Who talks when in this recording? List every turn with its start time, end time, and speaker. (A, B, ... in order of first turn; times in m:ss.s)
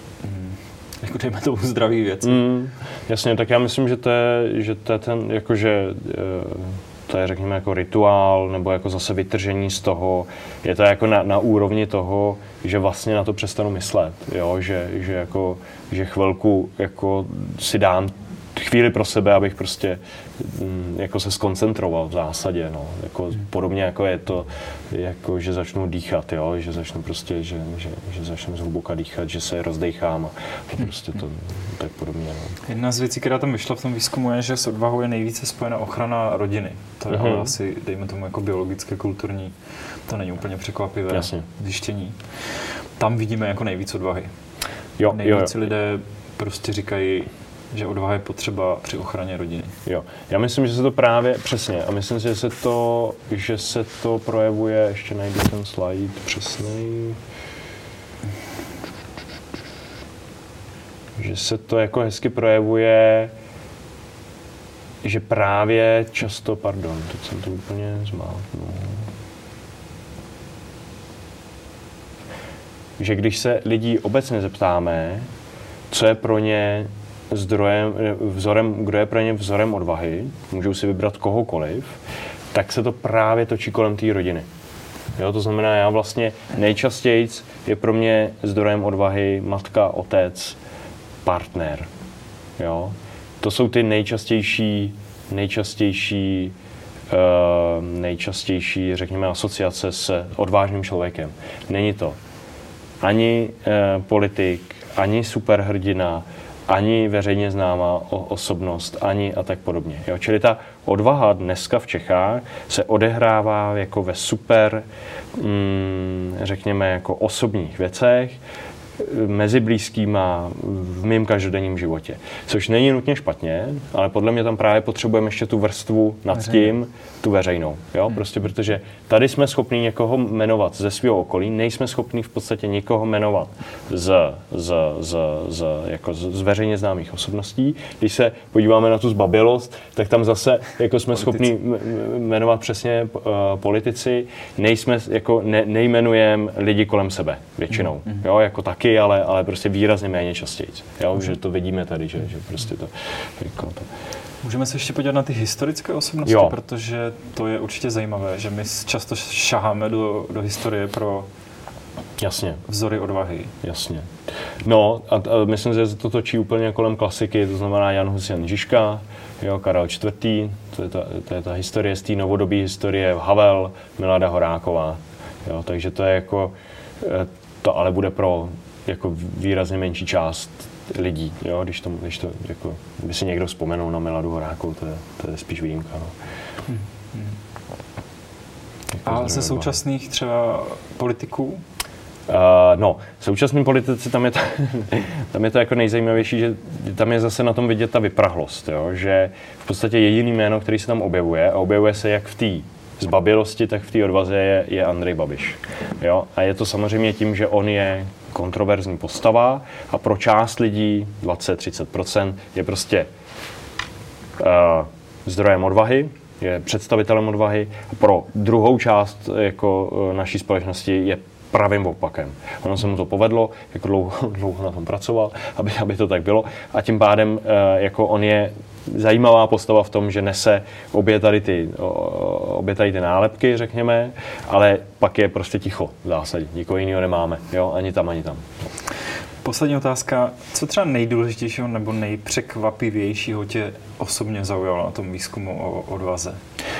0:00.2-0:02.4 A
0:02.2-0:32.6 B
0:32.6-0:39.5 A
0:37.1-0:37.5 B
0:40.1-0:44.3 A
0:41.1-0:41.4 B
0:45.0-0:45.5 B
0:45.1-0:49.8 A
0:49.8-0:57.2 B
1:01.2-1:03.3 B
1:05.0-1:09.1 B
1:13.0-1:15.3 B
1:15.9-1:22.0 B
1:22.5-1:24.5 B
1:25.2-1:30.6 B
1:31.2-1:31.9 B
1:32.6-1:36.6 B
1:37.1-1:42.2 B
1:43.0-1:54.8 B
1:55.4-1:58.4 B
1:59.0-2:33.9 B
2:34.4-2:41.3 A
2:36.2-2:36.5 B
2:42.2-2:42.6 B
2:42.6-2:43.6 A
2:43.6-2:44.1 B
2:44.6-3:06.1 B
3:06.7-3:07.3 A
3:08.9-3:09.7 B
3:09.0-3:11.6 A
3:12.3-3:33.1 B
3:34.4-3:58.5 B
3:59.4-4:06.4 A